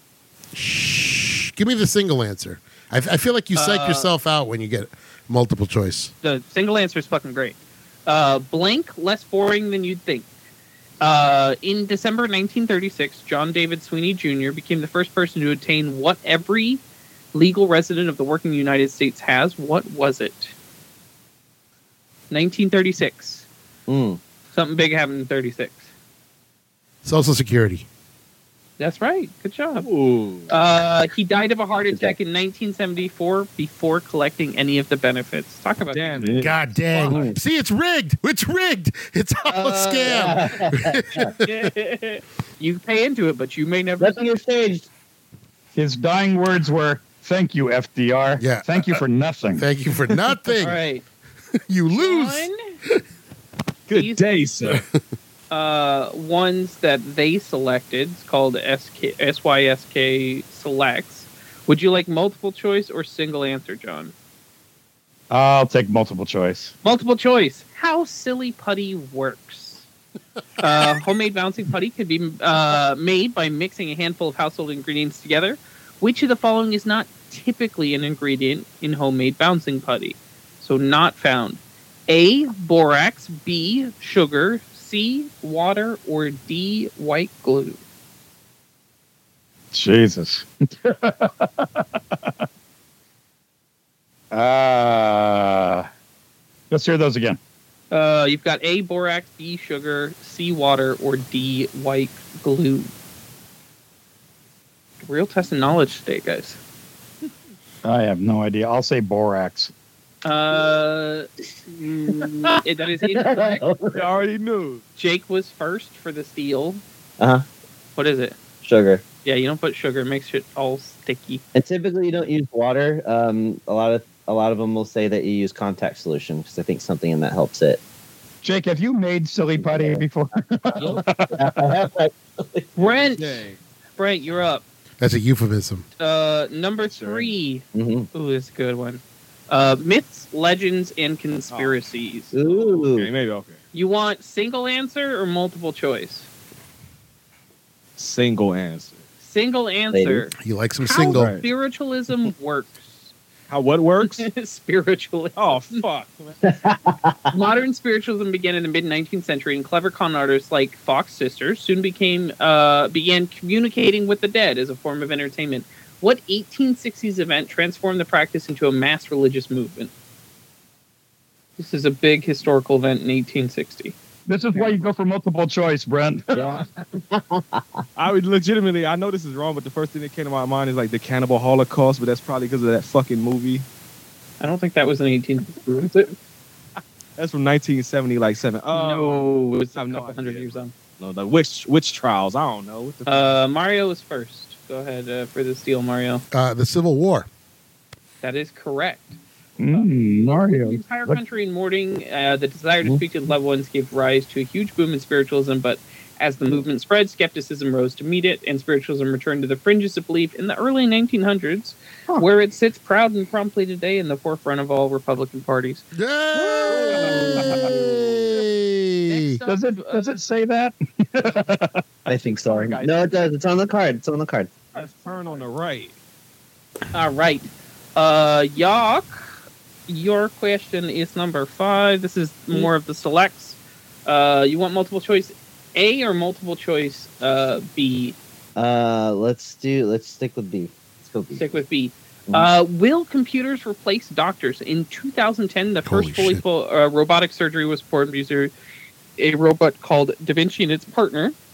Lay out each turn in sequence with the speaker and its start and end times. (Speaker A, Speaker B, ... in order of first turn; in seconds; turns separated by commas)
Speaker A: 0.5-6.1, Speaker B: 3.5-4.1, Speaker B: 6.2-10.3, Speaker B: 11.0-16.8, Speaker B: 17.3-20.5, Speaker B: 22.3-23.5, Speaker C: 23.9-24.2, Speaker B: 24.5-25.9, Speaker A: 27.0-27.9, Speaker B: 28.8-29.9, Speaker D: 29.8-30.5, Speaker B: 30.5-36.2, Speaker C: 31.9-32.2, Speaker D: 35.9-37.1, Speaker A: 36.4-41.5, Speaker C: 37.1-37.4, Speaker B: 39.4-40.5, Speaker C: 40.1-41.3, Speaker B: 41.4-44.3, Speaker C: 44.0-44.9, Speaker E: 45.8-49.7, Speaker A: 48.4-49.0, Speaker A: 49.6-50.8, Speaker B: 50.6-51.0, Speaker A: 51.7-52.5, Speaker B: 51.9-52.8, Speaker D: 53.9-54.8, Speaker B: 53.9-54.4, Speaker B: 55.5-64.1, Speaker E: 65.3-66.7, Speaker B: 66.8-69.8, Speaker B: 70.6-87.8, Speaker E: 89.7-92.3, Speaker E: 94.3-95.9, Speaker E: 96.7-97.4, Speaker B: 97.9-102.9, Speaker B: 105.0-106.6, Speaker E: 107.8-109.7, Speaker B: 110.2-113.6, Speaker C: 112.1-114.0, Speaker D: 113.9-114.8, Speaker B: 115.0-116.8, Speaker C: 117.2-117.5, Speaker B: 118.0-118.4, Speaker C: 118.6-119.0, Speaker B: 119.2-121.4, Speaker C: 121.5-127.8, Speaker E: 128.4-131.8, Speaker C: 129.6-130.0, Speaker C: 130.8-132.7, Speaker B: 132.8-133.5, Speaker D: 132.8-133.6, Speaker B: 134.0-134.6, Speaker A: 135.0-135.8, Speaker B: 136.0-142.3, Speaker D: 136.9-137.3, Speaker C: 137.8-138.1, Speaker D: 141.5-141.8, Speaker C: 142.3-143.1, Speaker D: 142.4-143.6, Speaker B: 143.7-146.3, Speaker D: 148.0-149.0, Speaker B: 149.2-153.1, Speaker C: 149.9-150.3, Speaker A: 150.4-151.3, Speaker D: 151.1-151.5, Speaker D: 153.5-154.3, Speaker B: 154.0-155.8, Speaker D: 155.4-156.4, Speaker C: 156.4-157.3, Speaker B: 157.3-169.9, Speaker B: 171.6-173.9, Speaker E: 174.3-176.6, Speaker C: 176.3-177.8, Speaker D: 178.0-183.7, Speaker B: 184.4-186.2, Speaker D: 187.2-193.3, Speaker B: 188.7-190.7, Speaker B: 193.1-196.2, Speaker A: 196.3-197.3, Speaker B: 198.2-199.2, Speaker E: 199.6-201.2, Speaker B: 199.7-215.8, Speaker A: 215.9-219.4, Speaker D: 216.7-218.4, Speaker C: 217.2-217.4, Speaker E: 217.3-217.7, Speaker B: 219.1-220.2, Speaker E: 219.4-223.2, Speaker C: 222.1-224.5, Speaker D: 224.7-225.9, Speaker B: 226.9-238.2, Speaker C: 238.6-241.6, Speaker B: 241.4-248.5, Speaker A: 245.9-246.4, Speaker B: 249.2-251.4